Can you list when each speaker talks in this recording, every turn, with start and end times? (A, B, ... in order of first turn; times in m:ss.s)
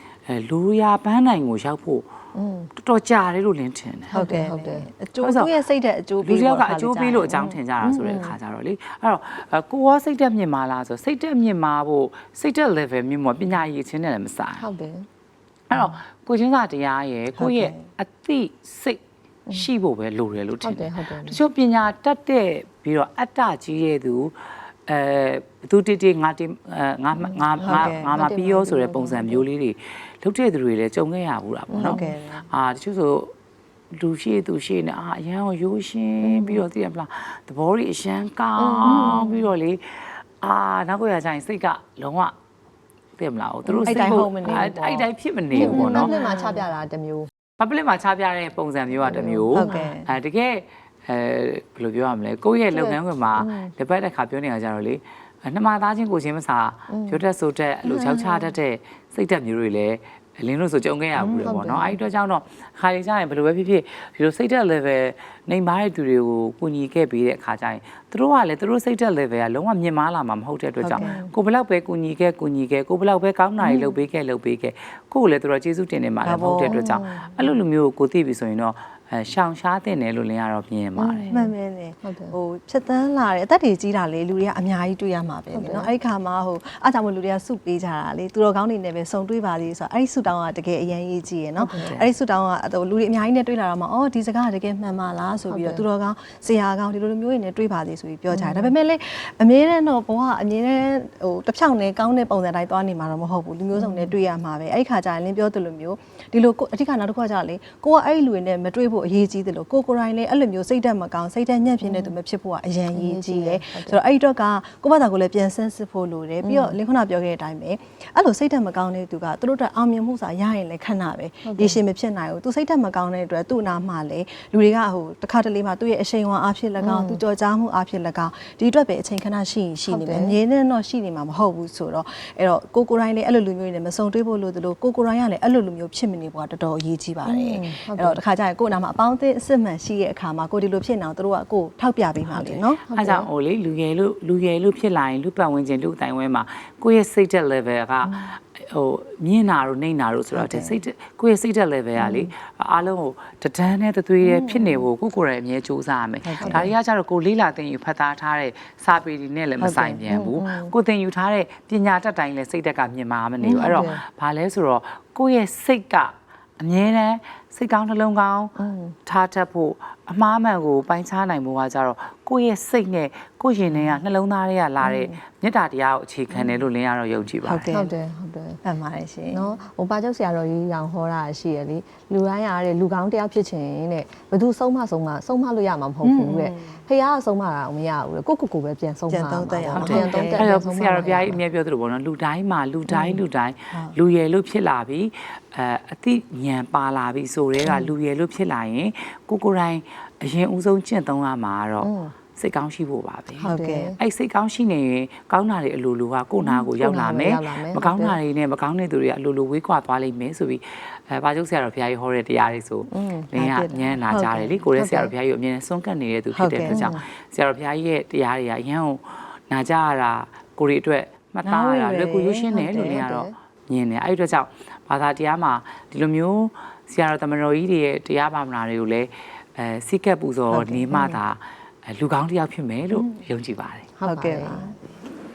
0:00.3-0:02.1 A
0:02.3-0:02.7 B
0:02.8-0:04.1 A
0:04.1-0:04.9 B
0:04.1-0:08.2 C
0:05.2-0:05.5 A
0:06.2-0:14.7 A
0:07.4-0:08.3 B
0:14.6-0:15.1 B
0:15.7-0:19.0 A
0:17.4-0:17.8 C
0:19.5-0:24.3 A
0:20.6-0:21.4 B
0:24.8-0:33.3 A
0:27.2-0:29.4 B
0:27.6-0:28.1 C
0:31.7-0:32.1 B
0:31.8-0:32.4 C
0:33.9-0:42.3 A
0:36.2-0:36.6 B
0:38.6-0:39.5 B
0:38.8-0:39.2 C
0:43.2-0:46.1 A
0:43.6-0:47.3 B
0:43.8-0:44.8 C
0:45.6-0:46.6 C
0:47.6-1:21.3 A
0:49.0-0:49.9 B
0:49.5-0:50.1 C
0:53.4-0:53.7 B
0:56.9-0:57.2 B
0:57.8-0:58.4 C
1:01.2-1:01.6 C
1:01.4-1:02.0 B
1:10.8-1:11.2 C
1:10.9-1:11.3 B
1:13.6-1:13.9 B
1:16.2-1:16.7 C
1:16.7-1:17.5 B
1:21.0-1:22.3 B
1:21.3-2:22.8 C
1:25.5-1:25.9 B
1:31.6-1:32.0 B
1:31.8-1:32.1 A
1:35.5-1:35.8 B
1:38.3-1:38.7 B
1:43.7-1:44.1 B
1:51.8-1:52.1 B
1:52.9-1:54.0 B
1:56.4-1:56.8 B
2:01.4-2:01.8 B
2:06.8-2:07.2 B
2:09.9-2:10.4 B
2:17.2-2:18.2 B
2:22.3-2:23.3 B
2:22.9-2:57.7 A
2:28.0-2:28.3 B
2:30.3-2:30.7 C
2:32.0-2:32.3 B
2:34.2-2:34.8 C
2:36.2-2:36.7 C
2:36.4-2:36.7 B
2:39.6-2:40.0 C
2:40.1-2:40.7 B
2:43.4-2:44.0 B
2:48.6-2:49.0 B
2:54.8-2:55.2 B
2:57.4-2:57.9 C
2:57.7-2:58.6 B
2:58.6-2:59.4 C
2:59.3-3:11.4 B
3:06.0-3:06.8 C
3:09.1-3:10.4 C
3:09.7-3:53.9 A
3:12.9-3:13.2 B
3:21.8-3:22.1 B
3:23.4-3:24.0 B
3:23.4-3:23.9 C
3:26.4-3:28.2 B
3:32.9-3:33.3 B
3:33.3-3:34.6 C
3:34.8-3:35.1 B
3:36.3-3:36.9 C
3:36.7-3:37.0 B
3:41.4-3:43.0 C
3:42.5-3:43.3 B
3:50.5-3:51.2 C
3:52.9-3:53.2 C
3:54.0-3:54.8 B
3:54.0-3:54.8 C